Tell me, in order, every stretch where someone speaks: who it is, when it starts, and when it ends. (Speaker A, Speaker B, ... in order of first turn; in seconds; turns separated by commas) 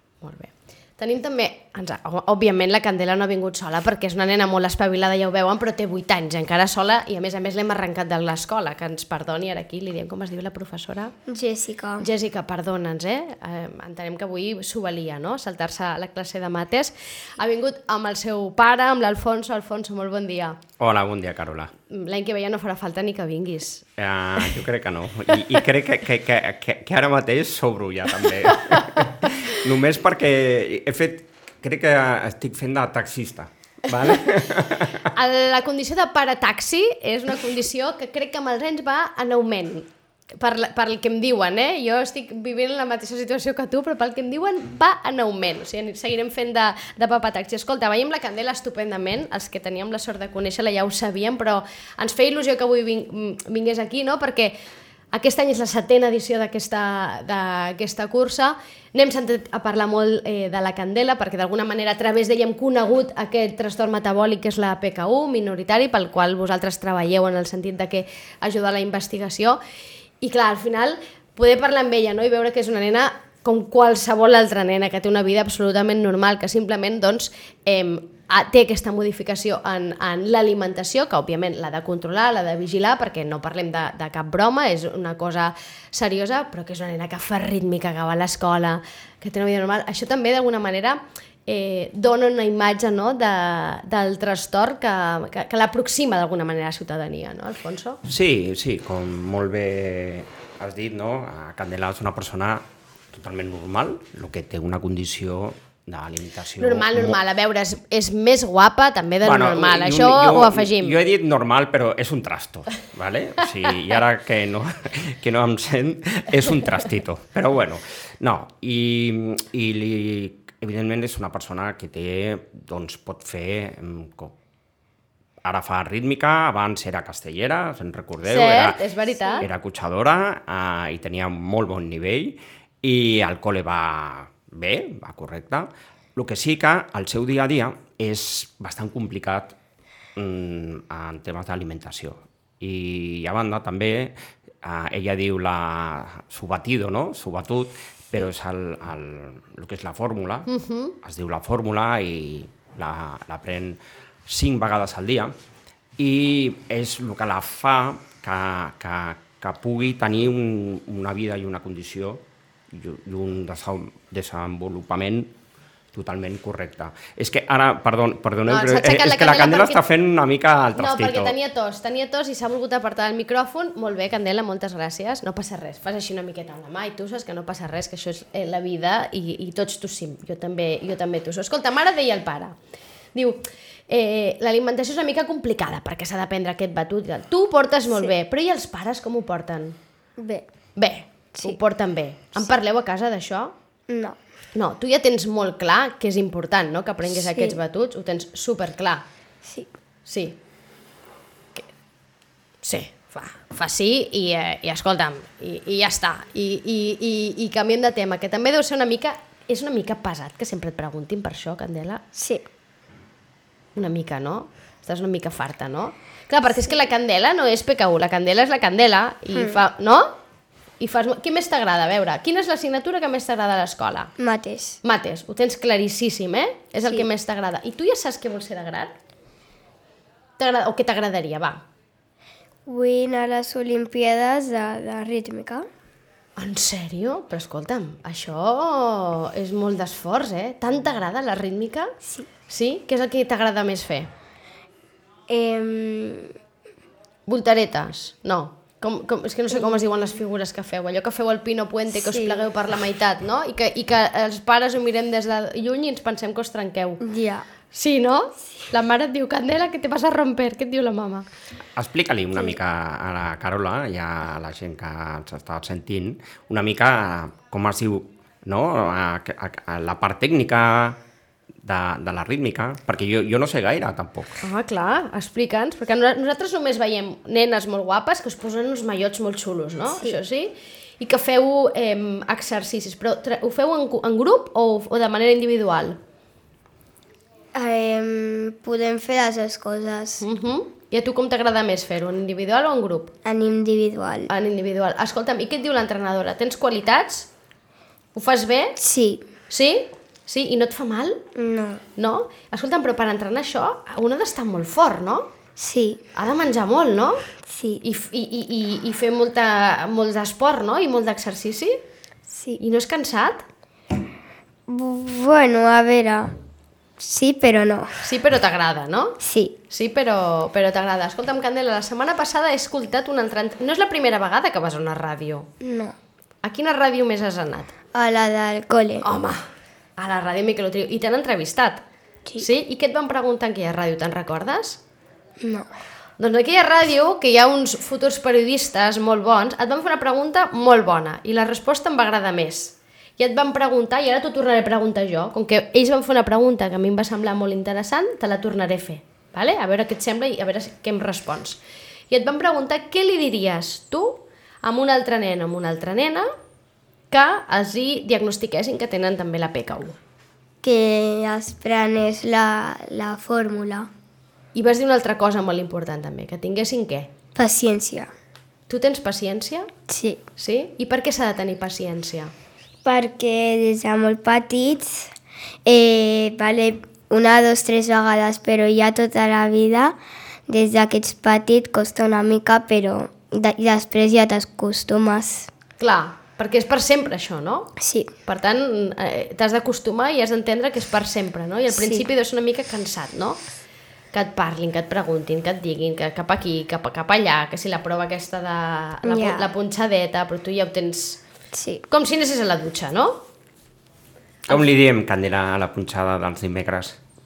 Speaker A: 0.2-11.1, Speaker B: 11.3-12.1, Speaker A: 12.0-20.6, Speaker C: 20.8-21.7, Speaker A: 21.9-23.8, Speaker C: 24.0-35.1, Speaker A: 35.1-54.5, Speaker A: 55.1-69.6, Speaker A: 70.2-98.0, Speaker C: 98.0-107.2, Speaker A: 106.6-111.0, Speaker C: 109.2-124.3, Speaker C: 125.4-128.8, Speaker A: 128.2-129.4, Speaker C: 129.4-139.5, Speaker C: 140.2-150.5, Speaker A: 150.5-150.9, Speaker C: 151.0-155.3, Speaker C: 156.0-165.3, Speaker C: 165.9-171.3, Speaker A: 168.5-169.8, Speaker A: 170.8-182.5, Speaker A: 183.1-189.8, Speaker B: 190.2-190.5, Speaker A: 190.8-193.5, Speaker B: 193.9-194.2, Speaker A: 194.5-199.0, Speaker B: 197.1-197.6, Speaker B: 199.4-199.7, Speaker A: 200.1-200.4, Speaker A: 202.6-212.0, Speaker B: 212.1-212.4, Speaker A: 213.8-220.1, Speaker B: 219.3-219.6, Speaker A: 220.8-224.1, Speaker B: 224.2-224.8, Speaker A: 224.8-228.9, Speaker A: 230.4-231.6, Speaker B: 232.7-235.7, Speaker A: 236.4-241.9, Speaker A: 242.5-244.1, Speaker B: 245.3-246.3, Speaker A: 247.3-257.0, Speaker B: 249.5-249.8, Speaker B: 251.9-252.5, Speaker B: 257.0-257.4, Speaker A: 257.7-261.2, Speaker C: 261.8-271.0, Speaker C: 271.6-274.4, Speaker A: 274.4-286.0, Speaker B: 287.6-290.2, Speaker A: 290.2-293.1, Speaker B: 293.2-294.3, Speaker A: 294.3-297.3, Speaker A: 298.1-298.8, Speaker B: 298.8-299.2, Speaker A: 299.5-301.2, Speaker B: 301.3-301.8, Speaker A: 302.0-305.3, Speaker B: 305.6-306.0, Speaker A: 306.2-307.2, Speaker B: 307.4-307.8, Speaker A: 307.8-311.8, Speaker B: 312.3-312.6, Speaker A: 312.6-313.4, Speaker B: 314.7-316.3, Speaker B: 317.0-318.0, Speaker A: 318.0-319.2, Speaker B: 319.2-319.6, Speaker A: 319.7-325.5, Speaker B: 325.6-325.9, Speaker A: 326.4-327.7, Speaker B: 327.9-329.1, Speaker A: 329.0-329.4, Speaker A: 330.0-331.8, Speaker A: 332.4-334.8, Speaker B: 335.4-335.7, Speaker A: 336.2-356.3, Speaker A: 357.1-359.9, Speaker B: 360.6-363.9, Speaker A: 364.5-367.1, Speaker B: 367.3-368.1, Speaker A: 368.7-369.7, Speaker B: 369.9-370.2, Speaker A: 370.4-372.3, Speaker B: 372.8-375.1, Speaker B: 375.6-379.9, Speaker B: 380.5-385.5, Speaker A: 385.8-387.7, Speaker B: 387.8-388.1, Speaker A: 388.2-393.4, Speaker B: 391.7-392.1, Speaker A: 394.1-401.2, Speaker B: 399.0-399.5, Speaker B: 401.5-401.8, Speaker A: 401.9-403.2, Speaker C: 404.5-407.0